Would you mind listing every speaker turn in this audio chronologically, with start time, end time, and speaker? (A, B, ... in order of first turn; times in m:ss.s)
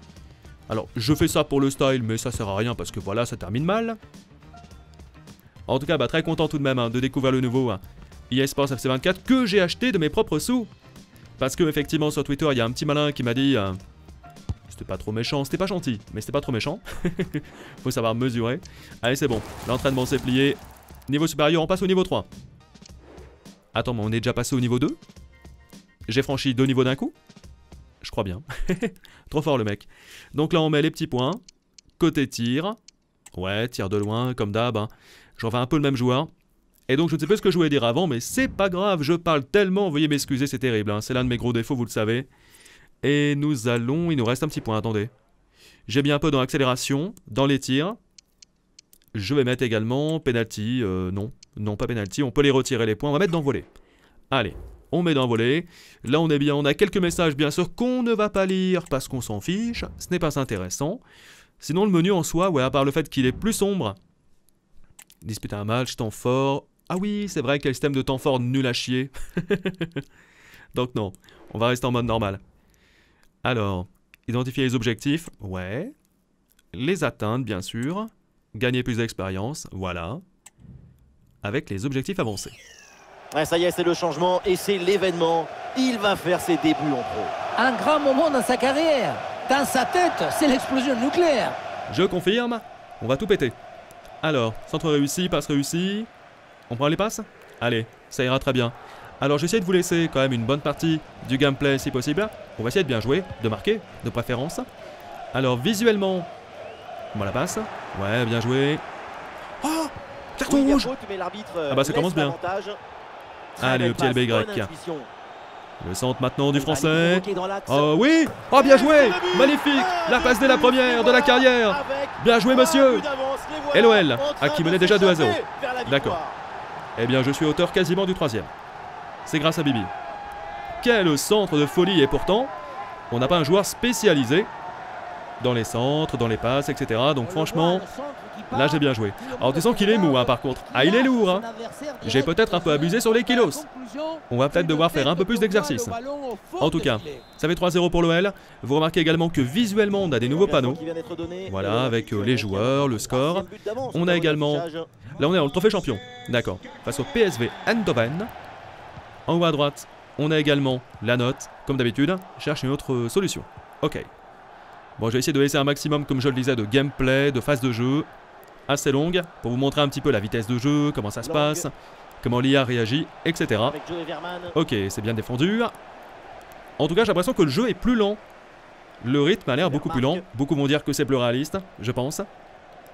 0:00.7-0:04.0 A
0:05.7-0:10.7 A
0:11.4-0:13.8 A
0:14.7-0:22.3 A
0:23.7-0:25.0 A
0:26.1-0:27.2 A
0:28.0-0:31.4 A
0:32.0-0:32.8 A
0:33.4-0:36.3 A
0:36.9-0:42.3 A
0:43.0-0:45.1 A
0:45.9-0:48.0 A
0:49.2-0:53.7 A
0:54.3-1:01.0 A
1:01.6-1:04.0 A
1:05.2-1:10.0 A
1:10.7-1:12.4 A
1:13.4-1:15.9 A
1:16.7-1:20.2 A
1:21.4-1:22.6 A
1:23.3-1:27.3 B
1:27.6-1:31.6 C
1:31.9-1:33.6 A
1:34.2-1:36.1 A
1:36.7-1:44.7 A
1:45.3-1:46.3 A
1:47.1-1:48.8 A
1:49.6-1:50.9 A
1:50.5-1:52.8 B
1:51.7-1:52.4 A
1:53.6-1:55.1 B
1:53.6-1:54.7 A
1:55.8-2:03.1 A
1:56.5-1:57.9 B
1:58.5-2:06.4 B
2:03.7-2:06.2 A
2:07.0-2:08.5 A
2:09.3-2:09.9 A
2:10.8-2:12.5 A
2:13.1-2:14.5 A
2:15.4-2:17.9 A
2:17.2-2:27.2 C
2:18.5-2:21.5 A
2:22.0-2:23.6 A
2:24.3-2:26.0 A
2:26.6-2:30.8 A
2:30.1-2:34.9 B
2:31.5-2:34.7 A
2:35.2-2:38.3 A
2:39.3-2:44.1 A
2:45.0-2:48.1 A
2:48.7-2:51.7 A
2:51.2-2:51.7 B
2:52.2-2:53.8 A
2:53.6-2:54.6 B
2:54.5-2:55.7 A
2:56.8-2:58.2 A
2:59.0-3:02.3 A
2:59.5-3:00.3 B